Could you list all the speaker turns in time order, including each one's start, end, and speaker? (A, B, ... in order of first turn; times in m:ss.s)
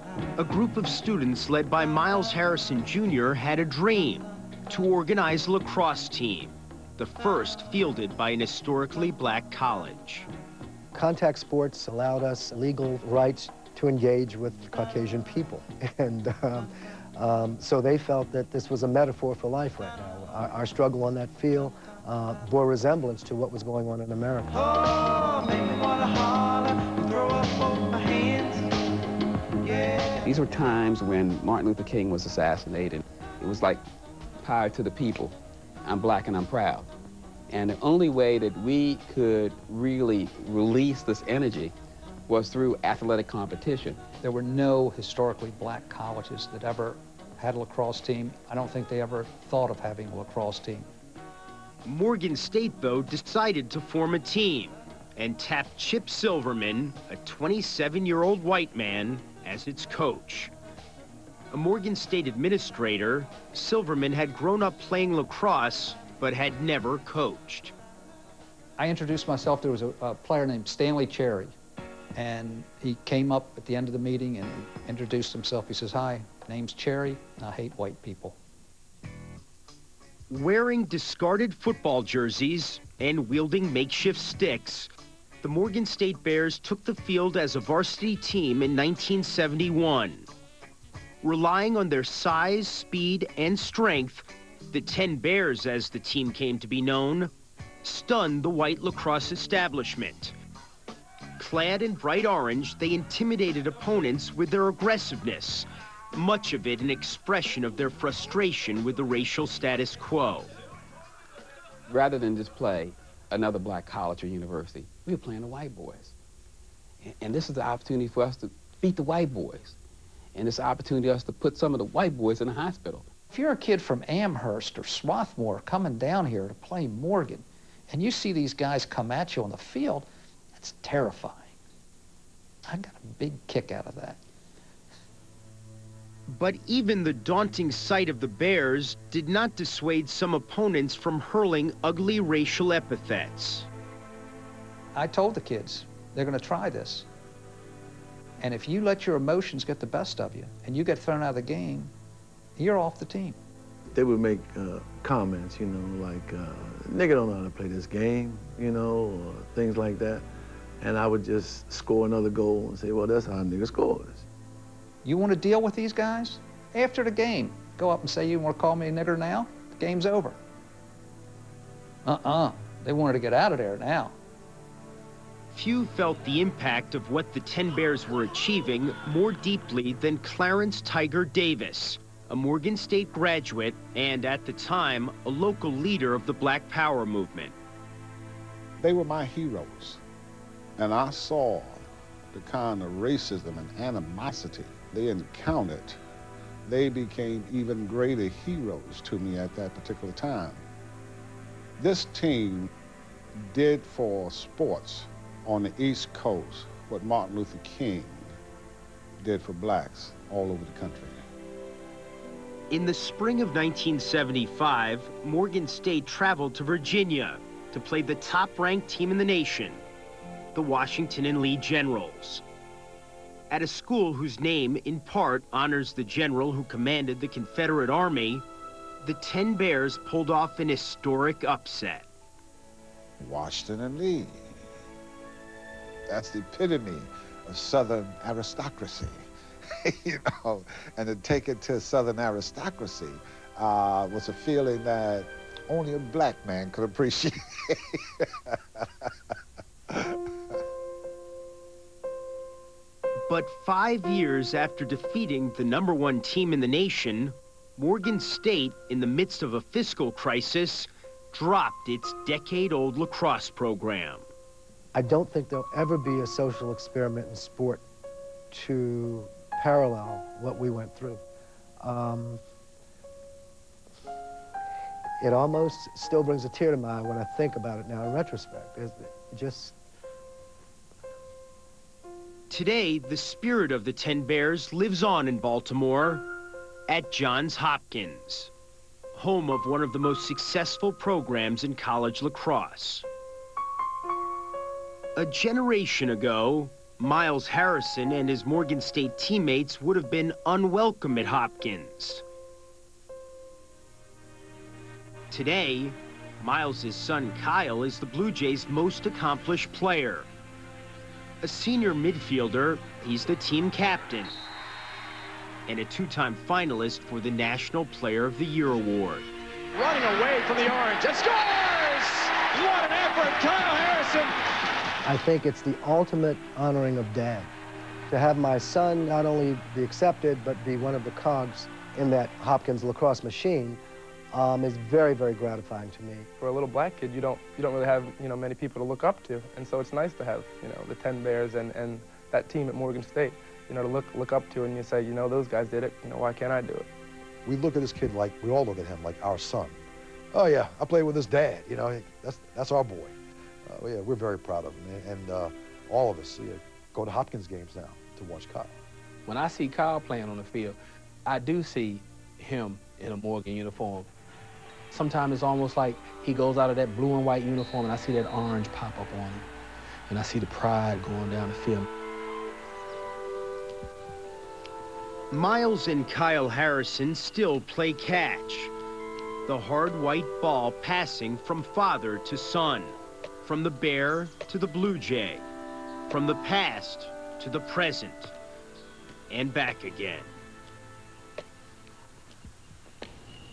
0:00.4-0:10.3 A
0:10.9-0:24.7 B
0:30.2-0:33.8 C
0:34.4-0:36.9 C
0:37.5-0:41.7 C
0:42.3-0:44.1 C
0:44.2-0:50.9 D
0:51.8-1:00.5 A
1:01.5-1:07.7 A
1:08.8-1:11.5 D
1:12.2-1:18.4 D
1:20.3-1:24.9 A
1:25.4-1:30.3 A
1:31.2-1:37.3 A
1:37.8-1:40.4 A
1:41.4-1:50.5 A
1:51.9-1:56.1 C
1:57.0-1:59.8 C
2:00.3-2:03.1 C
2:03.3-2:11.5 D
2:12.7-2:14.2 D
2:16.3-2:23.7 A
2:25.0-2:27.1 D
2:28.4-2:31.9 D
2:32.6-2:33.4 D
2:33.9-2:40.2 E
2:40.8-2:44.3 E
2:45.0-2:50.4 D
2:52.0-2:54.2 D
2:55.5-3:07.6 A
3:08.8-3:10.0 F
3:10.8-3:16.0 F
3:16.7-3:20.6 F
3:21.8-3:22.7 F
3:23.5-3:28.3 F
3:29.2-3:31.2 F
3:32.7-3:39.8 A
3:40.6-3:42.4 A
3:43.5-3:48.4 A
3:49.0-3:52.1 A
3:53.2-3:54.5 F
3:56.1-3:59.3 F
3:59.8-4:08.3 F
4:09.9-4:10.2 F
4:13.3-4:24.3 A
4:24.9-4:27.8 B
4:28.5-4:31.2 B
4:31.8-4:32.4 B
4:35.2-4:39.8 B
4:42.5-4:46.3 A
4:46.9-4:48.5 A
4:49.2-4:53.0 A
4:55.2-5:02.2 A
5:05.3-5:10.3 A
5:11.4-5:14.4 A
5:15.7-5:19.3 A
5:19.7-5:24.4 G
5:25.0-5:27.5 B
5:28.1-5:33.8 B
5:34.3-5:36.3 B
5:36.4-5:46.9 H
5:47.4-5:49.8 I
5:50.3-5:53.2 I
5:53.7-5:58.7 I
5:59.3-6:04.1 J
6:04.9-6:09.5 J
6:10.1-6:11.9 J
6:15.3-6:18.7 A
6:19.5-6:25.4 A
6:26.1-6:28.3 A
6:29.3-6:30.3 A